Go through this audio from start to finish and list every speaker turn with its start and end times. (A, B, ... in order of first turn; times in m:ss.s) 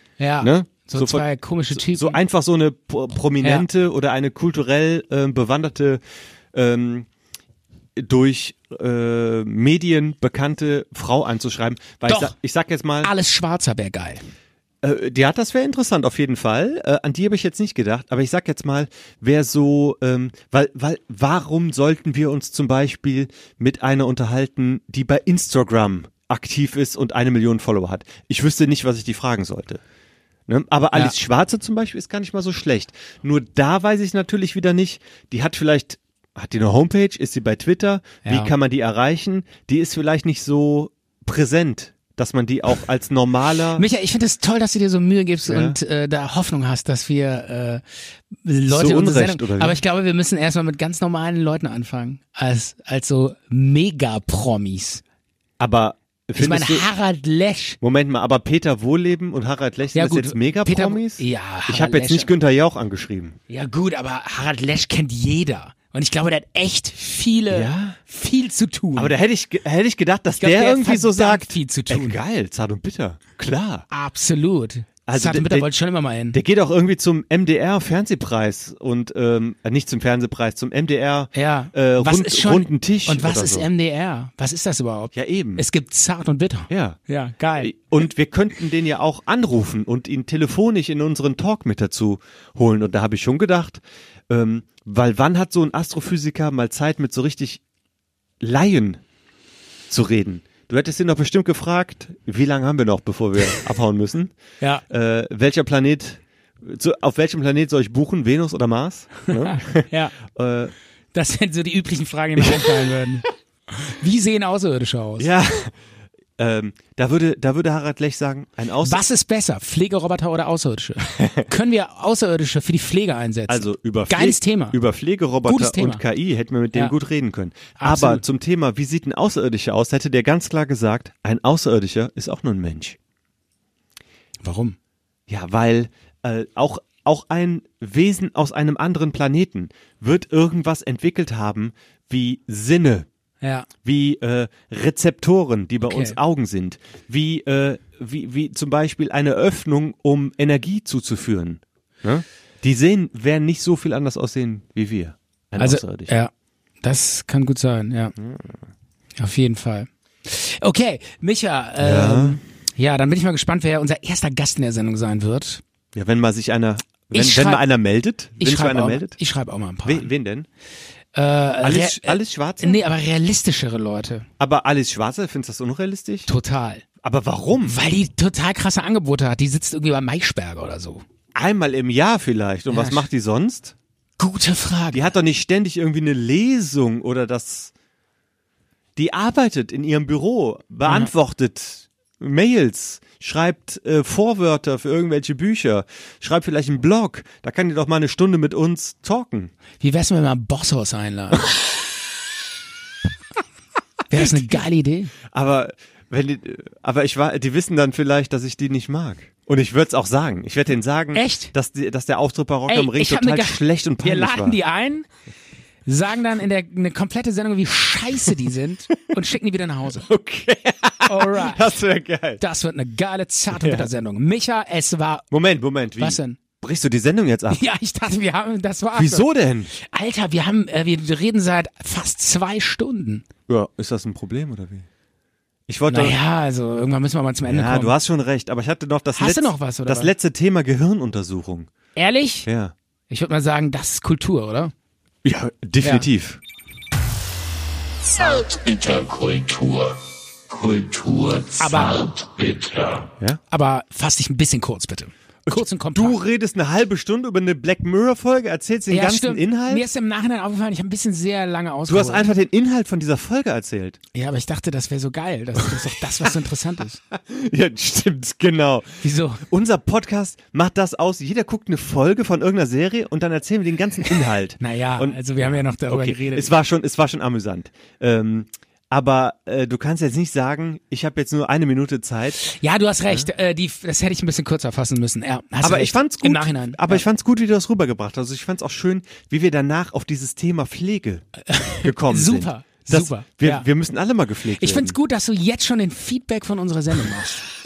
0:00.2-0:02.2 A
0:00.4-0:06.0 B
0:06.5-0:07.1 B
0:08.0-0:13.1 B
0:12.1-0:12.3 A
0:13.0-0:14.2 A
0:14.8-0:29.8 B
0:30.5-0:43.9 B
0:38.2-0:38.5 A
0:43.8-0:47.8 A
0:45.5-0:45.8 B
0:48.4-0:55.0 A
0:48.7-0:49.8 B
0:55.6-0:56.8 B
0:56.4-0:57.8 A
0:57.8-1:03.4 B
1:00.0-1:02.3 A
1:03.5-1:09.1 A
1:07.5-1:08.0 B
1:09.0-1:13.9 B
1:10.4-1:12.2 A
1:13.9-1:16.4 A
1:15.1-1:15.7 B
1:16.3-1:23.7 B
1:21.3-1:27.8 A
1:25.1-1:25.6 B
1:26.7-1:27.0 B
1:27.6-1:37.6 B
1:38.4-1:39.0 B
1:39.9-1:44.3 B
1:44.9-1:50.7 B
1:49.3-1:50.1 A
1:51.1-1:55.3 A
1:52.4-1:52.7 B
1:55.2-1:55.7 B
1:56.4-1:59.0 B
1:58.8-2:04.8 A
2:03.5-2:13.0 B
2:05.4-2:06.0 A
2:07.8-2:08.2 A
2:14.4-2:14.8 A
2:15.3-2:23.1 B
2:23.4-2:23.7 A
2:23.8-2:36.1 B
2:25.9-2:26.2 A
2:35.6-2:36.3 A
2:36.8-2:38.1 A
2:38.2-2:38.6 B
2:39.2-2:45.6 A
2:41.8-2:42.4 B
2:46.0-2:49.2 B
2:47.1-2:47.6 A
2:48.4-2:50.1 A
2:49.8-2:50.5 B
2:51.2-2:54.3 A
2:51.6-2:52.8 B
2:54.4-2:56.3 B
2:56.3-2:56.8 A
2:57.0-2:57.8 B
2:57.6-3:01.0 A
3:01.4-3:03.8 B
3:02.7-3:03.1 A
3:04.2-3:05.1 A
3:04.9-3:07.7 B
3:09.0-3:19.5 B
3:10.8-3:11.1 A
3:19.8-3:21.5 A
3:24.1-3:25.1 A
3:24.2-3:24.5 B
3:25.3-3:34.6 B
3:31.1-3:31.5 A
3:32.7-3:35.1 A
3:35.9-3:40.1 A
3:39.9-3:42.4 B
3:41.1-3:41.7 A
3:42.4-3:45.2 A
3:43.5-3:43.9 B
3:45.3-3:47.6 B
3:46.0-3:46.4 A
3:47.5-3:53.3 A
3:48.9-3:49.7 B
3:53.5-3:54.9 B
3:55.7-3:56.2 B
3:55.9-3:58.0 A
3:57.5-4:01.7 B
3:59.2-4:00.1 A
4:02.0-4:02.5 A
4:02.4-4:02.7 B
4:03.1-4:04.7 A
4:05.2-4:06.4 B
4:08.0-4:13.1 C
4:11.6-4:12.1 A
4:13.5-4:16.2 A
4:15.5-4:19.8 B
4:18.9-4:22.3 A
4:21.9-4:24.0 B
4:24.1-4:27.0 A
4:27.1-4:42.4 B
4:29.0-4:29.4 A
4:34.6-4:36.6 A
4:42.4-4:47.0 A
4:45.6-4:51.2 B
4:51.5-4:53.7 A
4:51.8-4:55.0 B
4:54.6-4:57.5 A